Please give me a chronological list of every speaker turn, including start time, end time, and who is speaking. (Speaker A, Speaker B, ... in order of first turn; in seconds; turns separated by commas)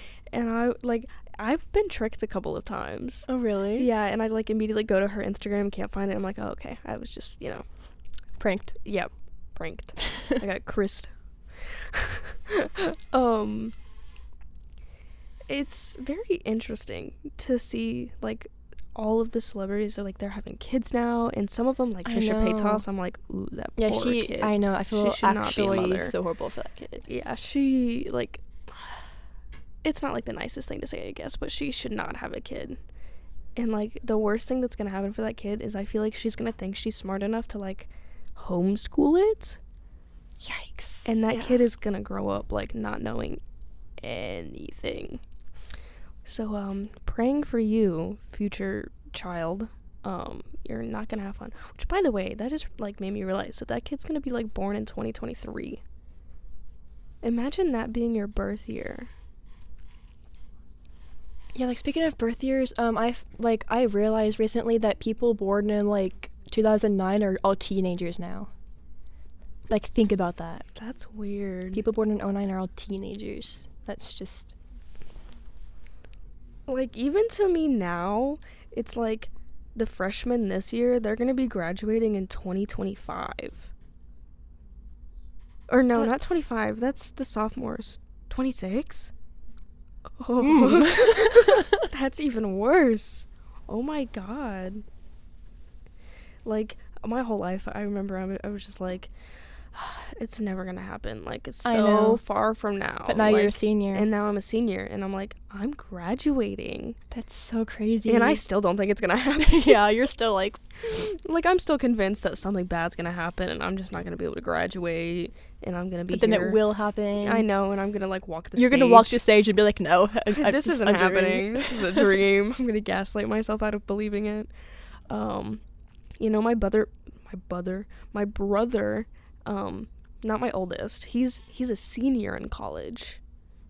Speaker A: 0.3-7.7, Speaker B: 3.3-3.9, Speaker B: 8.4-8.7, Speaker A: 8.8-13.7, Speaker A: 15.5-26.1, Speaker B: 22.1-22.8, Speaker B: 23.8-27.1, Speaker A: 27.1-29.0, Speaker A: 29.8-32.8, Speaker A: 33.6-39.6, Speaker B: 40.4-41.6, Speaker A: 41.0-43.4, Speaker A: 44.0-45.2, Speaker A: 46.2-55.8, Speaker A: 57.2-59.1, Speaker B: 61.5-68.5, Speaker B: 69.7-70.7, Speaker A: 70.8-71.8, Speaker B: 71.7-74.5, Speaker A: 76.7-83.7, Speaker A: 85.7-89.1, Speaker B: 86.0-86.5, Speaker A: 90.2-94.8, Speaker B: 90.4-91.8, Speaker A: 96.5-99.1, Speaker A: 99.7-107.0, Speaker B: 101.6-102.2, Speaker B: 103.1-104.1, Speaker B: 107.1-108.4, Speaker A: 108.1-109.8, Speaker B: 109.4-110.6, Speaker A: 110.8-116.6, Speaker B: 116.1-117.5, Speaker A: 117.2-119.2, Speaker B: 118.6-122.2, Speaker A: 120.3-124.5, Speaker A: 125.1-125.6, Speaker A: 126.2-133.2